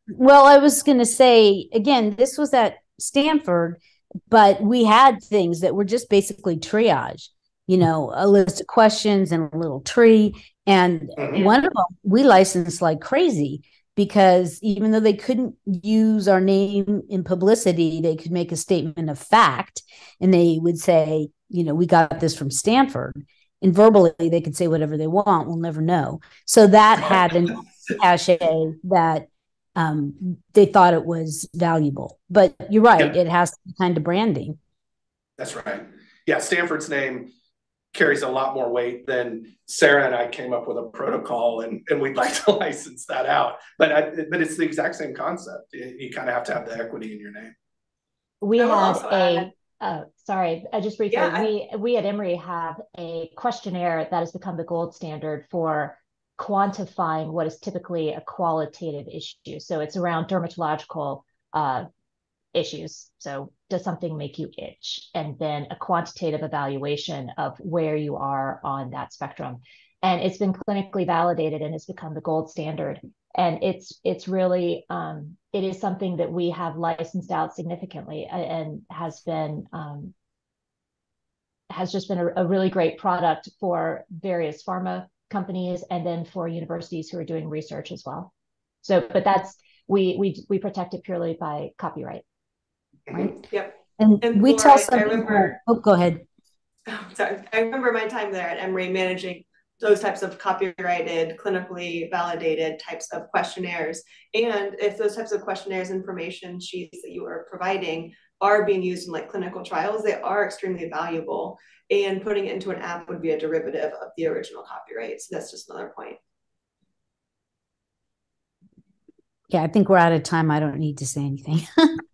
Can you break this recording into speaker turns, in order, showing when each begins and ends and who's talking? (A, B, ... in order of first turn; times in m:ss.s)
0:00.2-0:34.6 A
0:11.2-0:11.5 B
0:35.4-0:37.3 B
0:37.9-0:47.5 B
0:48.4-1:01.9 C
0:48.6-0:49.5 D
0:51.1-0:51.5 D
1:02.5-1:20.1 C
1:21.7-1:28.3 C
1:28.8-1:32.2 C
1:33.1-1:33.4 A
1:33.5-1:35.6 D
1:34.0-1:36.2 A
1:36.9-1:56.2 D
1:59.5-2:01.9 A